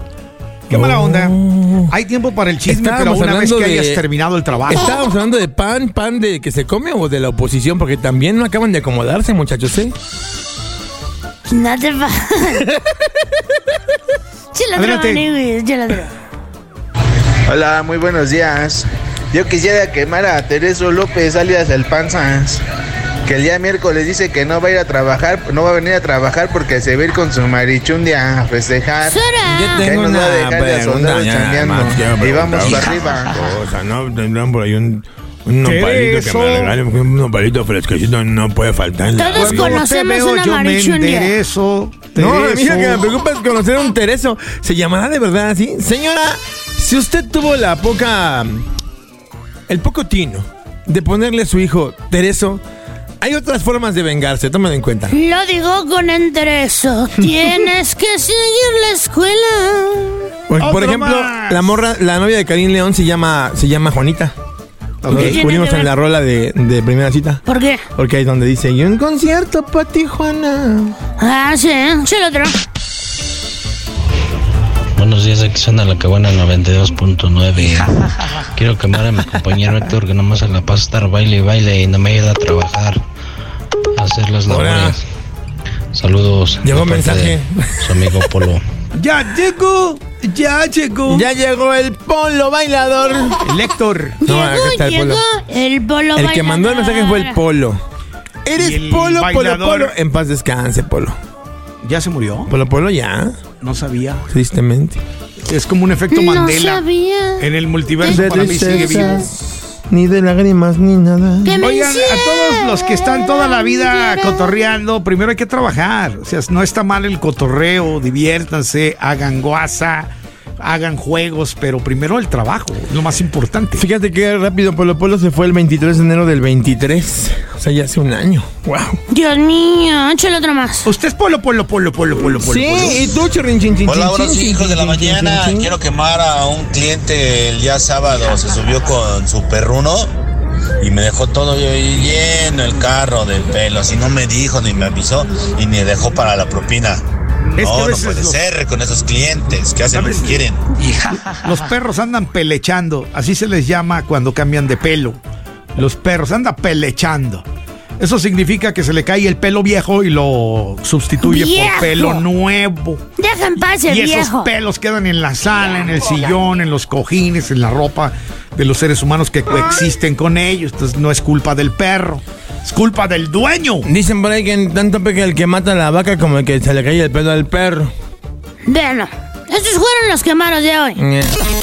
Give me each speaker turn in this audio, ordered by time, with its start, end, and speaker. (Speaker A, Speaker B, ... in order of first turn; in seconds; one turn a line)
Speaker A: 0.7-1.4
Speaker B: 0.7-1.9
Speaker A: 1.9-4.9
Speaker B: 2.6-4.0
Speaker B: 4.7-9.9
Speaker C: 11.5-12.6
Speaker C: 14.5-16.1
Speaker A: 14.8-15.3
Speaker D: 17.5-22.6
Speaker D: 23.2-29.3
Speaker C: 29.0-29.9
Speaker B: 29.5-39.8
Speaker D: 29.8-33.3
Speaker A: 35.6-36.8
Speaker C: 39.1-41.3
Speaker A: 39.3-43.1
Speaker B: 42.1-48.7
Speaker B: 49.7-52.6
Speaker B: 53.2-55.1
Speaker C: 55.1-60.2
Speaker B: 60.5-64.3
Speaker A: 60.6-61.8
Speaker A: 65.0-65.5
Speaker C: 65.1-65.9
Speaker B: 65.1-67.4
Speaker C: 67.4-67.8
Speaker B: 68.0-71.0
Speaker C: 71.2-72.5
Speaker E: 75.0-77.9
Speaker E: 78.5-83.0
Speaker E: 84.0-85.0
Speaker B: 84.5-85.0
Speaker E: 85.9-88.6
Speaker B: 86.6-88.3
Speaker A: 88.9-91.3
Speaker B: 91.1-93.4
Speaker A: 93.4-94.2
Speaker C: 94.2-97.4
Speaker B: 94.2-95.2
Speaker B: 96.1-97.8
Speaker B: 98.5-101.2
Speaker A: 98.5-99.9
Speaker A: 101.8-102.5
Speaker B: 102.5-103.4
Speaker A: 103.6-104.3
Speaker B: 104.3-105.0
Speaker A: 105.4-106.8
Speaker C: 106.1-109.3
Speaker A: 107.4-109.2
Speaker B: 108.0-111.7
Speaker C: 111.4-114.4
Speaker A: 111.6-123.8
Speaker B: 123.8-129.0
Speaker C: 129.1-130.9
Speaker A: 130.8-133.1
Speaker B: 132.4-135.7
Speaker F: 133.8-140.1
Speaker F: 140.8-147.0
Speaker A: 147.5-148.4
Speaker F: 147.6-150.6
Speaker A: 149.8-150.4
Speaker A: 151.3-155.2
Speaker A: 155.8-157.4
Speaker A: 158.0-163.0
Speaker C: 161.2-162.2
Speaker C: 163.2-164.5
Speaker A: 163.9-173.9
Speaker B: 173.8-177.9
Speaker C: 178.7-181.0
Speaker B: 181.0-181.3